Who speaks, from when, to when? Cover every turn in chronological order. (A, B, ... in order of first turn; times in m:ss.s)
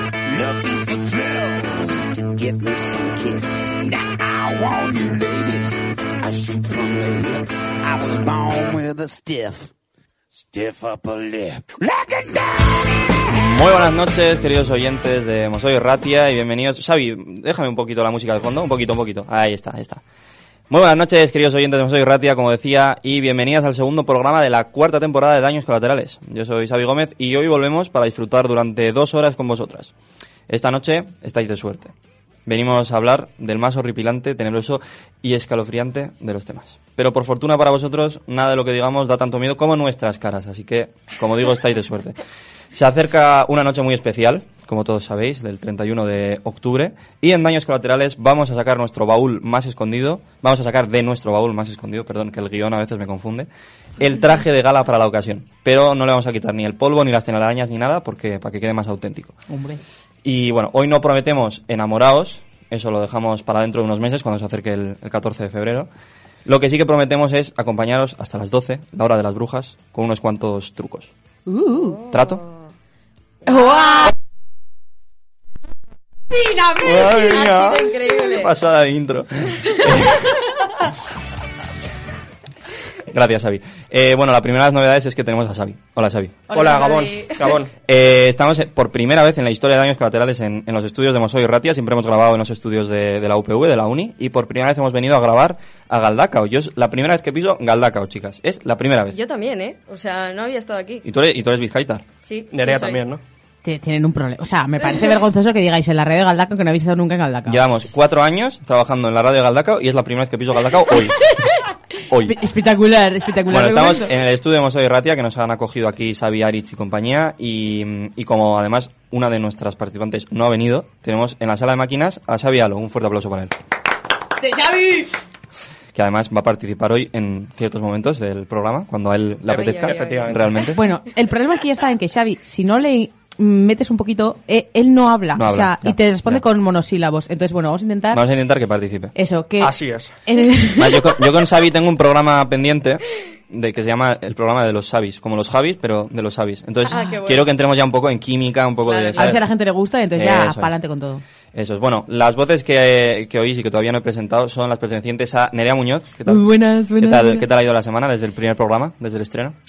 0:00.2-0:09.7 A
0:10.4-0:12.8 A
0:13.4-0:20.0 B
0:20.7-0:29.9 B
0:30.5-0:31.9 B
0:32.4-0:42.2 B
0:42.7-0:59.4 B
0:59.5-0:59.8 C
1:00.2-1:05.9 B
1:06.4-1:11.1 B
1:11.5-1:12.0 C
1:11.8-1:12.6 D
1:12.1-1:12.4 B
1:13.5-1:14.1 C
1:13.5-1:13.9 D
1:16.3-1:17.2 C
1:16.8-1:20.3 B
1:17.1-1:18.5 D
1:23.1-1:26.4 B
1:26.5-1:27.7 E
1:26.5-1:27.1 C
1:26.5-1:27.6 D
1:27.9-1:39.2 B
1:39.1-1:41.0 D
1:41.0-1:42.0 B
1:42.2-1:43.0 D
1:42.5-1:43.2 E
1:43.6-1:47.6 C
1:47.5-1:51.5 B
1:52.1-1:52.4 B
1:52.2-1:54.1 C
1:53.5-2:03.5 B
2:04.4-2:05.1 C
2:05.9-2:10.8 B
2:09.5-2:10.5 D
2:09.5-2:10.7 E
2:10.7-2:18.2 C
2:15.3-2:16.4 B
2:18.1-2:19.1 B
2:19.1-2:21.1 C
2:19.6-2:20.1 E
2:20.8-2:29.4 B
2:26.9-2:27.5 D
2:28.8-2:29.4 D
2:29.2-2:31.2 C
2:30.1-2:30.8 B
2:31.5-2:39.5 B
2:36.3-2:37.5 C